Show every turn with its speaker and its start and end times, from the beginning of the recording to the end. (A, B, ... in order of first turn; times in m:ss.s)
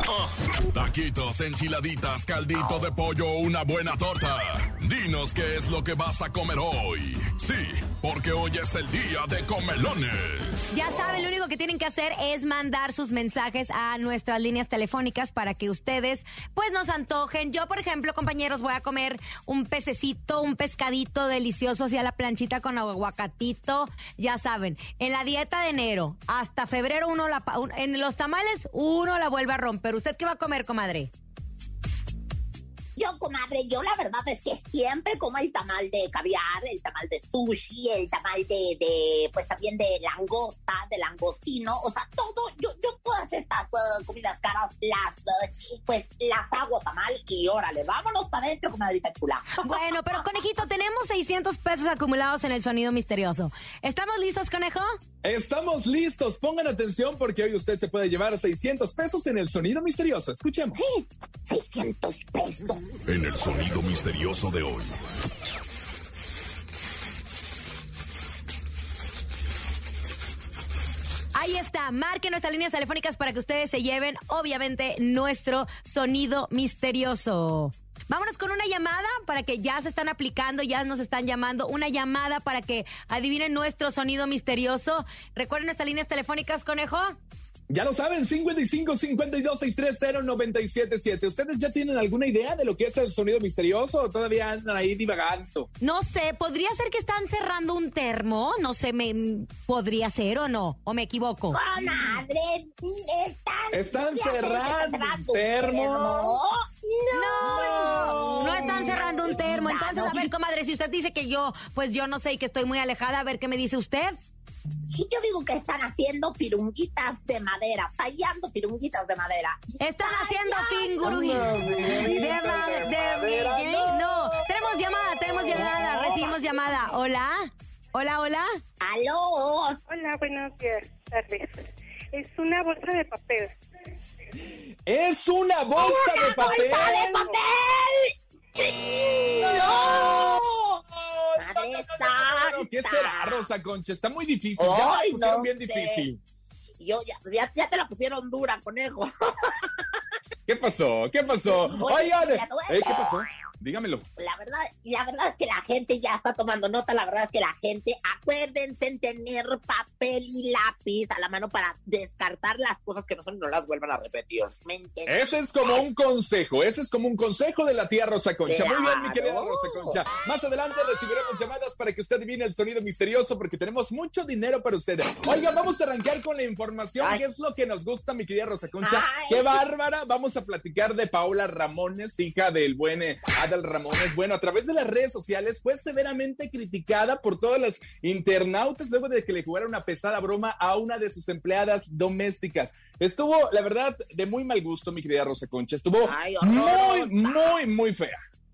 0:00.2-0:10.7 A
0:10.7-0:31.1 B
0:33.0-0:50.2 C
0:49.6-0:54.9 B
0:55.2-1:00.8 D
1:00.8-1:02.8 C
1:03.0-1:05.0 A
1:11.3-1:27.2 B
1:27.7-1:35.7 D
1:35.8-1:41.6 B
1:41.5-1:50.3 C
1:43.7-1:46.4 D
1:47.1-1:54.2 B
1:47.4-1:48.7 D
1:54.9-2:01.8 C
1:59.8-2:08.5 B
2:01.0-2:04.4 D
2:05.6-2:06.2 D
2:08.8-2:09.8 C
2:09.9-2:13.6 E
2:14.8-2:17.3 D
2:15.8-2:20.5 C
2:16.4-2:17.4 E
2:19.4-2:26.2 D
2:21.4-2:23.5 C
2:24.6-2:26.1 C
2:26.8-2:30.0 C
2:30.5-2:34.0 D
2:31.5-2:33.2 C
2:34.2-2:45.3 C
2:45.1-3:18.2 D
2:48.5-2:50.0 C
2:58.8-2:59.6 C
3:16.0-3:17.5 C